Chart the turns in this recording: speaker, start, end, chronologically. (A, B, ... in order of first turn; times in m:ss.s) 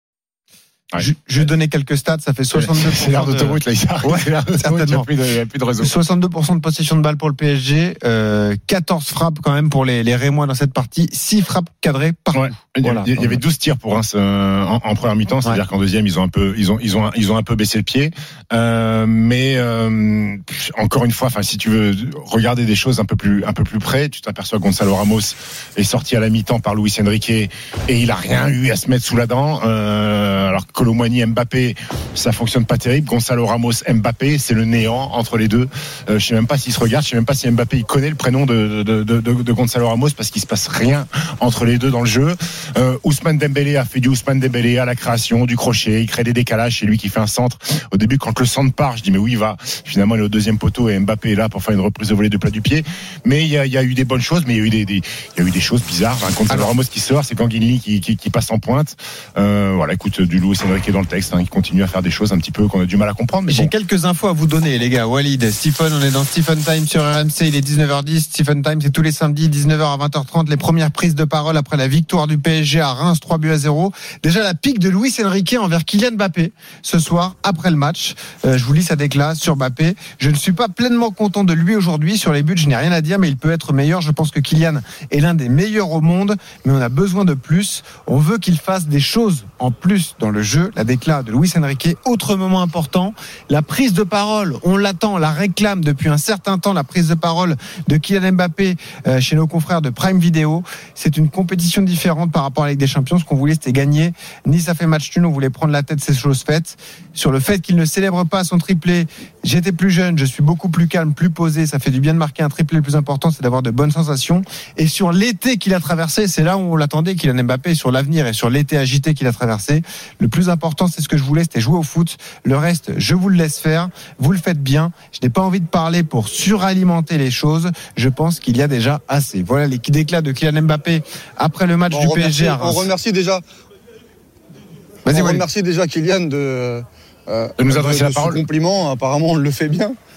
0:01.0-0:05.1 A
0:02.5-0:05.9 B
0:05.8-0:13.4 A
0:12.3-1:03.7 B
1:03.5-2:12.9 A
2:11.9-2:13.4 C
2:15.1-2:15.4 A
2:15.1-2:20.0 C
2:17.6-2:18.4 B